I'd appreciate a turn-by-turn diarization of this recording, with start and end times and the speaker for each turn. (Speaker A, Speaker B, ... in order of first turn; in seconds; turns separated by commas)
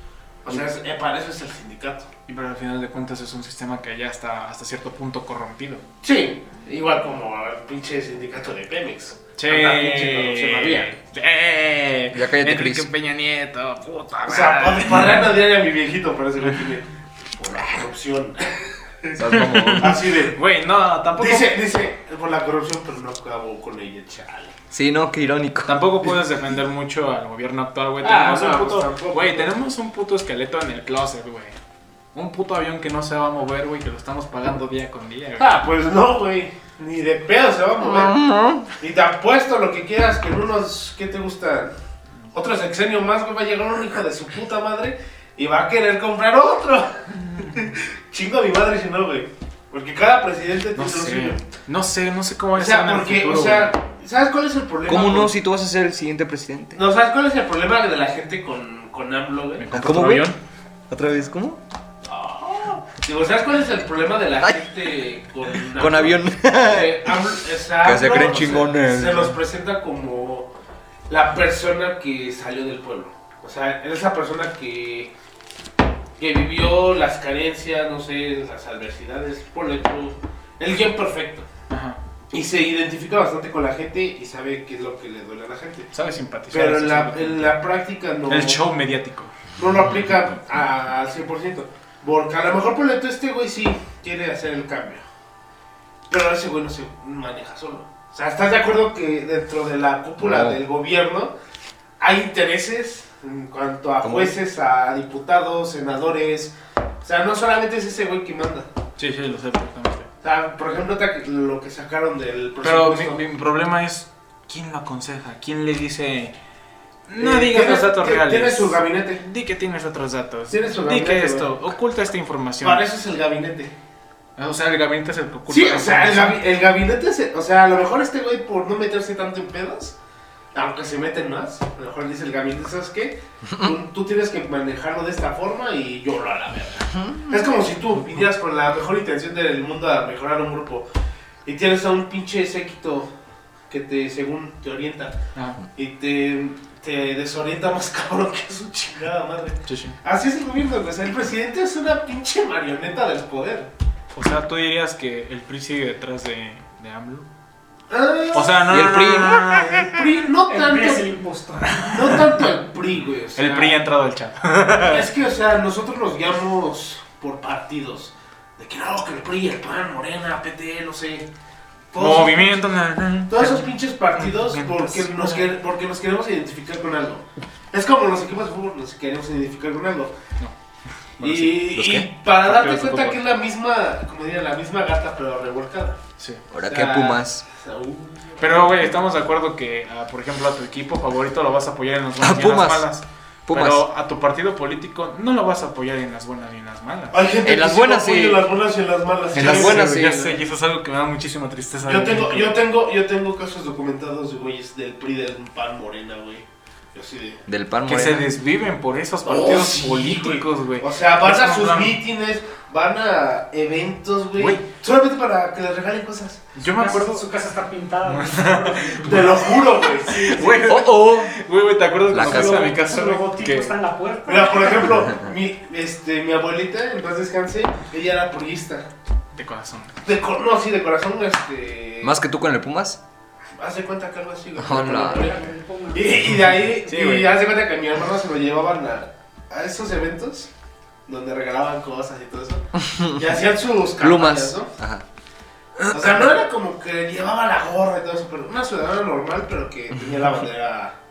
Speaker A: 0.4-2.1, Speaker B: 2.3-5.8, Speaker A: 6.0-10.9, Speaker B: 9.4-15.3, Speaker C: 12.1-12.9, Speaker A: 14.2-20.4, Speaker C: 19.2-19.9, Speaker B: 19.2-21.5, Speaker A: 21.2-24.5, Speaker C: 24.7-26.1, Speaker B: 25.6-31.6, Speaker A: 28.0-29.5, Speaker B: 32.1-35.6, Speaker A: 35.4-38.2, Speaker C: 37.8-38.7, Speaker A: 38.8-41.7, Speaker A: 42.3-51.4, Speaker B: 50.8-53.8, Speaker A: 52.5-55.3, Speaker C: 54.9-56.8, Speaker A: 56.7-59.7, Speaker B: 59.6-60.4, Speaker C: 59.7-60.3, Speaker C: 60.9-61.6, Speaker A: 62.0-70.5, Speaker C: 65.7-67.2, Speaker C: 67.8-69.4, Speaker A: 71.1-75.1, Speaker A: 76.2-81.5, Speaker B: 81.7-82.0, Speaker A: 82.3-85.9, Speaker B: 85.9-87.6, Speaker A: 86.5-88.6, Speaker B: 88.3-89.3, Speaker A: 89.6-95.0, Speaker A: 96.1-101.3, Speaker C: 100.2-100.6, Speaker A: 102.0-108.7, Speaker C: 104.0-104.3, Speaker B: 109.0-110.1, Speaker A: 110.2-113.2, Speaker B: 112.6-116.3, Speaker B: 117.1-122.8, Speaker A: 117.2-119.2, Speaker A: 120.5-121.5, Speaker A: 122.6-123.7, Speaker B: 124.4-126.4, Speaker A: 125.5-129.9, Speaker A: 130.5-140.9, Speaker A: 141.4-143.1, Speaker A: 143.7-145.2, Speaker B: 145.3-145.6, Speaker A: 145.7-153.7, Speaker B: 149.7-149.9, Speaker B: 154.1-157.2, Speaker A: 157.9-158.8, Speaker B: 158.3-159.9, Speaker C: 158.7-159.8, Speaker A: 159.8-161.1, Speaker D: 160.5-162.2, Speaker B: 161.6-162.4, Speaker A: 161.8-163.8, Speaker B: 163.3-165.1, Speaker A: 164.8-171.3, Speaker A: 171.9-172.6, Speaker B: 172.0-175.5, Speaker A: 173.3-180.1, Speaker B: 181.2-181.7, Speaker A: 181.2-186.0, Speaker C: 181.7-182.1, Speaker B: 182.4-183.2, Speaker C: 186.5-187.4, Speaker A: 186.6-188.7, Speaker B: 188.4-197.2, Speaker C: 192.2-192.9, Speaker C: 193.5-193.8, Speaker A: 197.1-200.3, Speaker C: 197.4-198.4, Speaker C: 199.3-200.3, Speaker B: 199.3-202.6, Speaker A: 201.8-207.4, Speaker C: 207.5-208.3, Speaker B: 207.8-212.0, Speaker A: 209.2-216.4, Speaker B: 214.4-214.6, Speaker B: 216.6-217.3, Speaker D: 216.7-220.6, Speaker B: 218.1-219.5, Speaker A: 219.0-220.6, Speaker B: 220.1-223.8, Speaker C: 220.6-221.3, Speaker C: 222.1-222.8, Speaker D: 222.2-225.1, Speaker A: 224.2-228.9, Speaker B: 229.3-229.9, Speaker A: 230.0-232.2, Speaker C: 232.0-233.0, Speaker A: 233.6-240.5, Speaker C: 234.6-235.3, Speaker D: 234.9-236.1, Speaker B: 236.8-237.3, Speaker A: 241.1-244.7, Speaker C: 242.8-243.2, Speaker C: 244.0-245.0, Speaker C: 245.8-246.3, Speaker A: 245.9-250.9